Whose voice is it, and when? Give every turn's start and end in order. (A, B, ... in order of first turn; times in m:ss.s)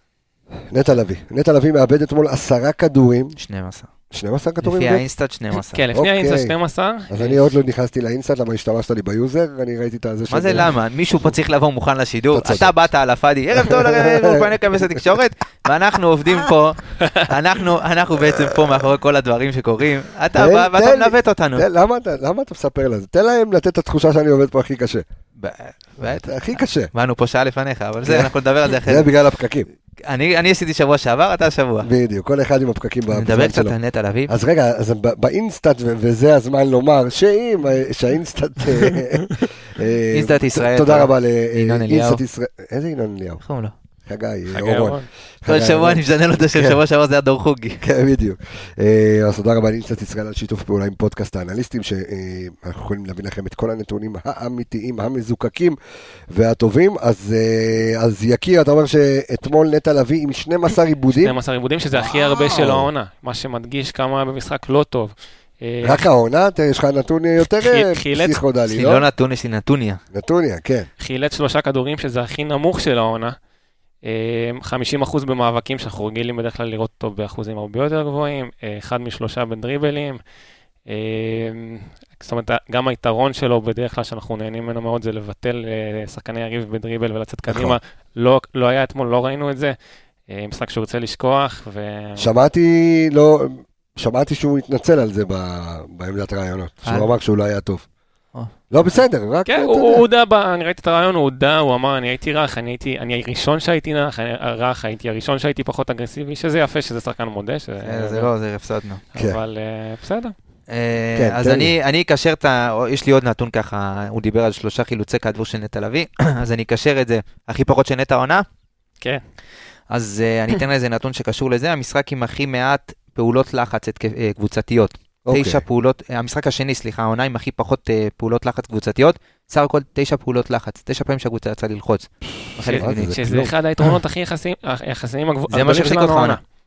0:00.7-0:03.4 A
0:03.4-0:03.9 B
0:04.1-0:05.0 A
0:04.6-0:05.8 B
0:05.5-0:07.4 C
0:05.9-0:06.6 A
0:07.1-0:10.7 A
0:10.3-0:21.7 B
0:12.3-0:12.7 A
0:13.6-0:14.5 A
0:20.4-0:25.0 A
0:25.4-0:29.1 B
0:26.2-0:26.9 A
0:28.0-0:28.3 A
0:28.8-0:29.7 A
0:30.1-0:31.9 B
0:31.8-0:33.8 A
0:33.1-0:34.3 B
0:34.3-0:43.4 A
0:40.1-0:42.2 B
0:43.4-0:43.7 B
0:44.0-0:46.8 A
0:44.5-0:45.1 C
0:45.5-0:47.8 B
0:47.8-0:55.8 A
0:56.3-1:01.4 A
1:01.2-1:06.0 C
1:02.0-1:02.9 A
1:05.8-1:09.0 A
1:07.5-1:08.4 C
1:08.7-1:10.0 B
1:10.1-1:10.9 A
1:11.0-1:13.4 C
1:14.0-1:20.2 C
1:20.9-1:29.8 C
1:27.5-1:27.8 A
1:30.3-1:32.3 C
1:32.2-1:37.8 A
1:36.8-1:37.1 B
1:38.7-1:40.0 A
1:39.5-1:48.3 C
1:47.8-1:49.0 B
1:49.1-1:50.4 C
1:50.7-1:58.4 B
1:51.2-1:51.7 A
1:59.9-2:13.5 B
2:05.3-2:05.6 A
2:12.6-2:16.4 C
2:12.7-2:13.5 A
2:15.5-2:16.4 B